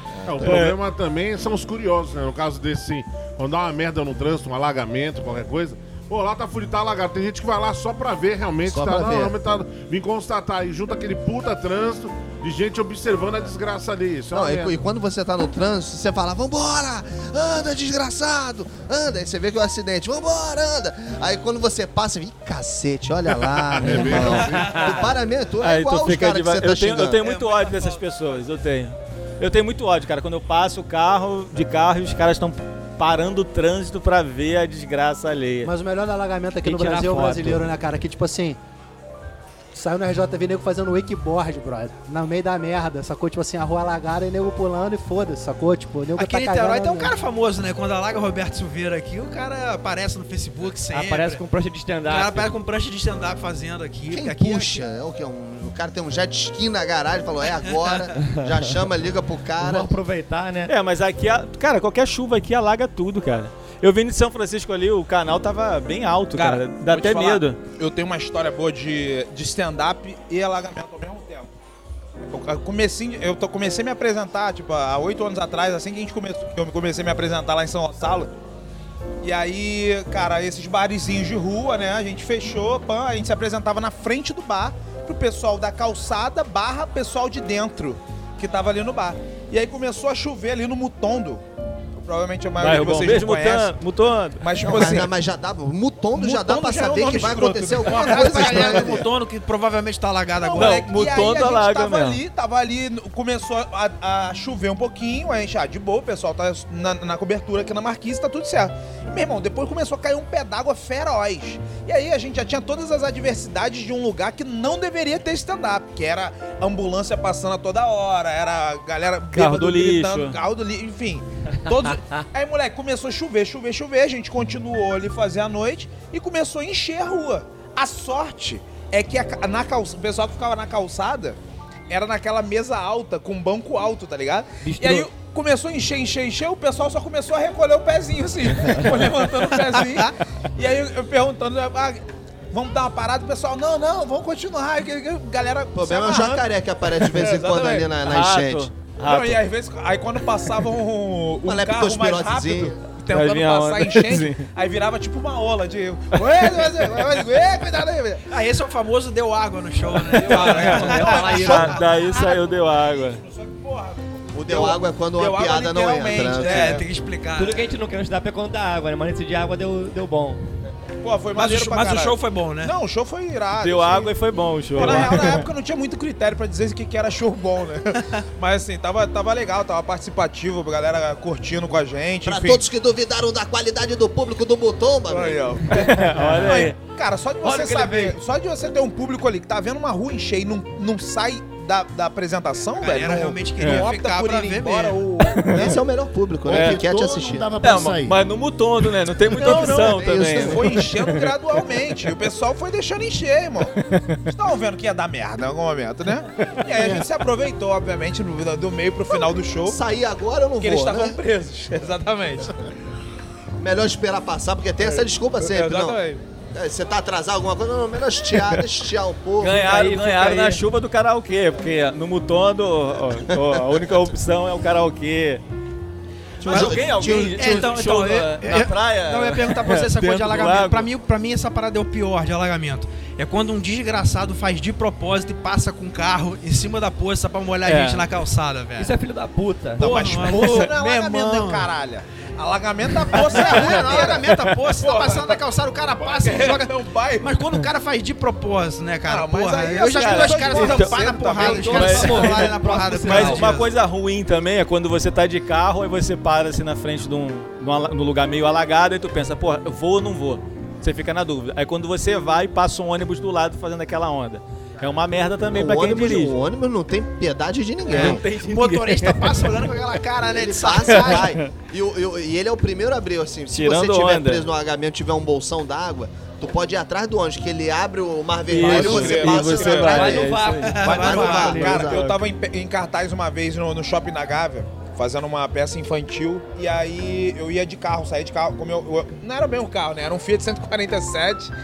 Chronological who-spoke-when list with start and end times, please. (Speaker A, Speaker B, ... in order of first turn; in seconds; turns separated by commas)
Speaker A: 0.2-0.6, Speaker B: 0.2-14.8, Speaker C: 0.4-0.8, Speaker A: 8.7-9.3, Speaker A: 14.3-27.2, Speaker B: 23.4-24.8, Speaker D: 24.1-25.1, Speaker C: 24.7-24.9, Speaker C: 25.6-35.7, Speaker D: 27.2-28.0, Speaker E: 35.6-38.6, Speaker F: 36.6-37.7, Speaker E: 39.7-47.1, Speaker D: 46.2-51.4, Speaker F: 50.9-52.5, Speaker D: 52.1-54.9, Speaker A: 54.1-60.0, Speaker D: 57.7-58.0, Speaker F: 58.2-58.7, Speaker F: 59.6-60.7, Speaker C: 60.7-67.6, Speaker G: 66.3-71.5, Speaker G: 72.3-78.3, Speaker G: 79.2-91.4, Speaker G: 92.0-93.7, Speaker C: 92.6-94.5, Speaker G: 94.4-95.1, Speaker A: 94.6-99.1, Speaker G: 96.2-99.0, Speaker D: 97.8-100.8, Speaker G: 100.4-131.4, Speaker C: 100.5-102.2, Speaker C: 119.3-120.4, Speaker G: 131.9-147.9, Speaker F: 134.6-135.1, Speaker D: 139.7-140.0, Speaker A: 145.8-148.7, Speaker C: 148.0-149.4, Speaker G: 149.0-158.2, Speaker A: 151.4-152.8, Speaker C: 153.1-154.4, Speaker D: 158.3-161.8, Speaker G: 159.9-166.8, Speaker F: 160.4-161.8, Speaker C: 160.4-163.2, Speaker A: 164.3-166.8, Speaker D: 166.3-167.6, Speaker F: 167.4-170.4, Speaker G: 171.0-174.1, Speaker D: 171.3-172.8, Speaker C: 173.6-175.5, Speaker G: 174.8-182.6, Speaker A: 182.2-185.5, Speaker G: 185.1-195.8, Speaker C: 185.7-186.8, Speaker D: 187.4-188.1, Speaker F: 187.5-187.8, Speaker D: 192.8-195.3, Speaker C: 193.6-193.9, Speaker C: 195.3-195.8, Speaker A: 195.5-197.5, Speaker H: 196.5-198.2, Speaker C: 196.5-196.8, Speaker C: 197.6-201.3, Speaker A: 199.3-200.8, Speaker G: 199.3-209.8, Speaker C: 203.8-204.2, Speaker H: 206.8-207.1, Speaker A: 209.7-211.2, Speaker G: 210.6-212.5, Speaker A: 213.6-216.0, Speaker G: 214.8-216.2, Speaker A: 216.5-220.0, Speaker C: 219.4-225.4, Speaker F: 219.7-220.6, Speaker A: 226.4-227.7, Speaker C: 226.4-230.9, Speaker D: 226.5-238.9, Speaker C: 237.6-238.1, Speaker F: 238.8-240.1, Speaker D: 239.8-241.7, Speaker G: 239.8-245.4, Speaker D: 243.0-253.7, Speaker C: 244.3-244.5, Speaker G: 246.0-247.4, Speaker G: 249.1-252.5, Speaker C: 249.8-266.4, Speaker F: 251.4-253.6, Speaker A: 265.5-268.2, Speaker C: 267.9-269.5, Speaker D: 267.9-271.3, Speaker A: 270.3-280.3, Speaker C: 270.8-271.5, Speaker C: 273.5-274.5, Speaker C: 278.5-282.2, Speaker G: 278.5-291.5, Speaker F: 279.6-281.0, Speaker D: 280.6-281.9, Speaker A: 280.9-282.1